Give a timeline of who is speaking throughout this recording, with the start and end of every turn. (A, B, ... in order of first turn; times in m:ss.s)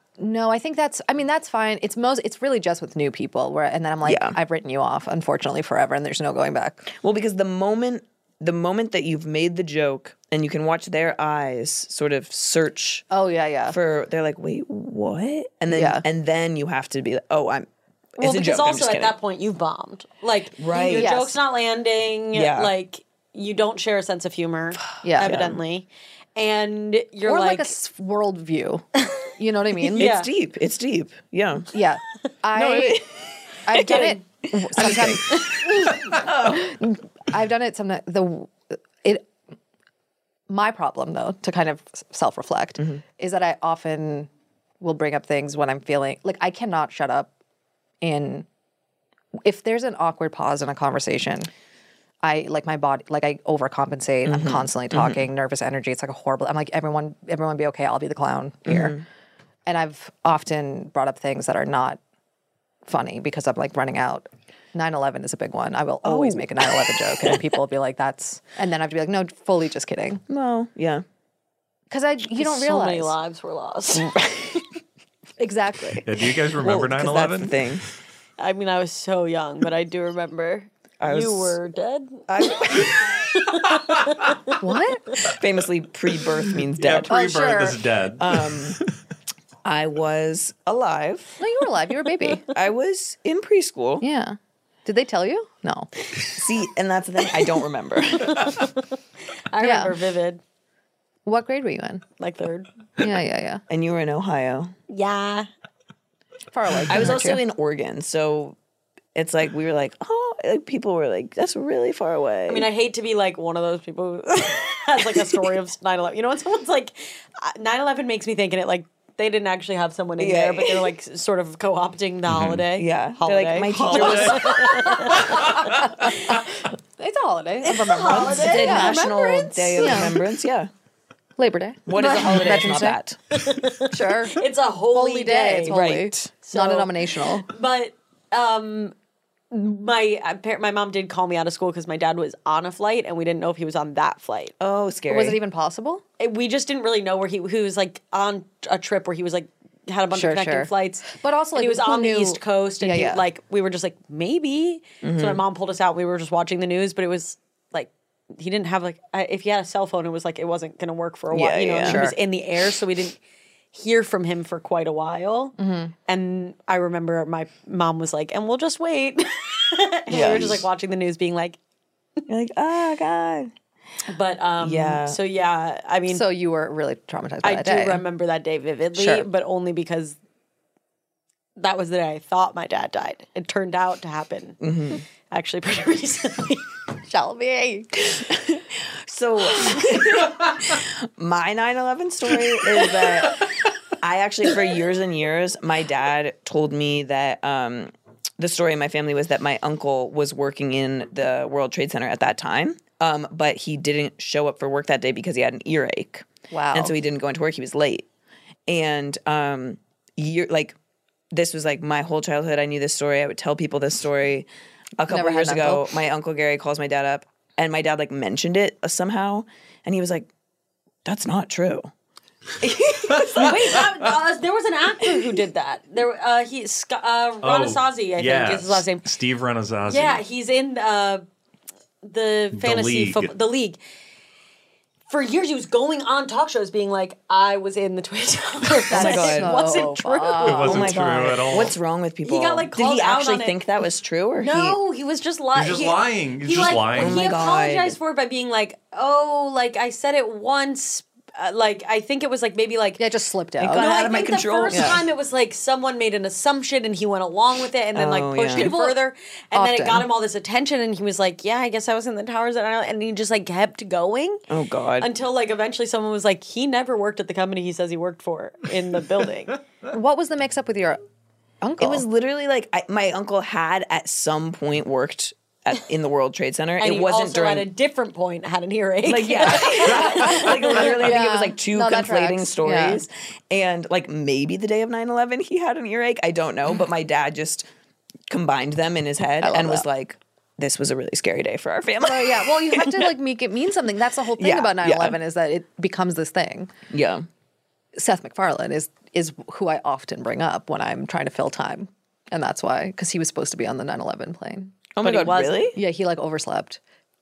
0:00.2-0:06.9 A
0:04.0-0:04.4 B
0:06.9-0:13.1 B
0:13.1-0:13.8 A
0:13.7-0:19.1 B
0:15.7-0:16.0 A
0:18.2-0:27.7 C
0:20.6-0:21.1 B
0:20.9-0:21.3 A
0:22.3-0:22.7 B
0:25.0-0:25.5 A
0:25.2-0:25.6 B
0:27.2-0:30.2 A
0:29.9-0:31.7 B
0:29.9-0:30.3 C
0:31.7-0:33.0 A
0:32.5-0:36.7 B
0:33.6-0:39.3 A
0:33.8-0:34.2 C
0:40.5-0:47.3 A
0:48.0-0:48.5 A
0:49.4-0:51.5 A
0:52.2-0:59.0 A
0:54.2-0:55.2 B
0:58.6-0:59.0 B
0:59.6-1:02.0 A
1:02.8-1:10.2 A
1:06.0-1:07.4 B
1:10.3-1:11.0 B
1:11.9-1:13.2 A
1:12.4-1:14.1 C
1:13.9-1:14.6 B
1:15.4-1:16.0 A
1:16.0-1:17.6 D
1:16.6-1:17.8 B
1:18.4-1:24.5 C
1:21.0-1:21.6 B
1:22.3-1:23.2 B
1:24.6-1:25.0 A
1:25.2-1:27.2 B
1:26.8-1:28.8 D
1:27.1-1:27.8 A
1:28.2-1:28.8 B
1:29.6-1:31.4 B
1:31.4-1:32.4 A
1:32.5-1:34.0 B
1:34.0-1:35.9 A
1:36.3-1:38.6 B
1:38.2-1:38.8 C
1:39.5-1:40.4 C
1:39.6-1:39.9 A
1:41.2-1:42.0 A
1:42.2-1:42.7 C
1:43.0-1:43.6 A
1:43.7-1:44.7 B
1:44.9-1:45.5 C
1:46.5-1:47.4 A
1:46.9-1:48.6 B
1:49.1-1:52.7 B
1:52.5-2:06.3 C
2:00.2-2:00.9 B
2:02.3-2:02.6 D
2:02.8-2:05.1 B
2:03.8-2:04.5 D
2:05.1-2:06.4 A
2:07.0-2:10.2 A
2:07.6-2:10.0 C
2:08.1-2:10.7 B
2:11.4-2:13.0 A
2:11.9-2:13.2 B
2:12.0-2:12.7 C
2:13.3-2:15.8 C
2:13.9-2:17.5 A
2:15.6-2:16.3 B
2:16.4-2:16.9 C
2:17.4-2:18.9 C
2:19.5-2:24.5 C
2:24.6-2:25.4 B
2:25.1-2:26.0 A
2:26.2-2:43.2 C
2:30.1-2:33.2 A
2:35.0-2:35.4 B
2:41.3-2:42.1 B
2:41.8-2:42.2 A
2:43.7-2:45.5 C
2:45.6-2:45.9 A
2:46.1-2:51.6 C
2:50.1-2:50.6 B
2:52.3-2:53.5 B
2:54.1-2:56.2 C
2:54.6-2:55.2 B
2:56.1-2:58.0 A
2:57.4-3:00.2 C
2:58.9-2:59.3 A
3:01.6-3:04.6 C
3:04.6-3:05.0 B
3:05.3-3:06.7 C
3:07.1-3:07.8 A
3:08.1-3:28.0 B
3:26.5-3:27.0 A
3:28.7-3:30.8 B
3:31.3-3:34.5 B
3:35.0-3:40.3 B
3:35.0-3:36.0 A
3:41.0-3:41.9 B
3:42.6-3:43.8 B
3:43.3-3:49.0 C
3:47.4-3:50.2 D
3:49.9-3:51.2 C
3:52.0-3:53.8 C
3:52.5-3:53.3 D
3:55.1-4:00.8 C
3:58.9-3:59.6 B
3:58.9-4:00.9 A
4:00.4-4:01.7 D
4:00.6-4:04.8 B
4:02.2-4:03.6 C
4:04.4-4:13.0 C
4:05.5-4:07.3 D
4:06.9-4:08.0 B
4:13.0-4:13.9 A
4:13.6-4:15.0 B
4:13.7-4:24.4 C
4:14.7-4:15.0 A
4:17.9-4:18.7 B
4:18.5-4:19.0 A
4:19.5-4:20.0 A
4:24.5-4:25.1 B
4:25.0-4:29.6 C
4:29.9-4:31.0 A
4:31.6-4:32.0 A
4:31.8-4:37.7 B
4:36.8-4:41.0 C
4:39.0-4:47.7 B
4:40.3-4:43.0 A
4:48.3-4:53.1 B
4:49.4-4:49.8 A
4:52.0-4:56.7 A
4:54.4-4:55.2 B
4:56.9-4:57.2 B
4:57.9-5:04.7 A
5:05.0-5:05.8 B
5:05.0-5:05.7 C
5:05.7-5:06.8 A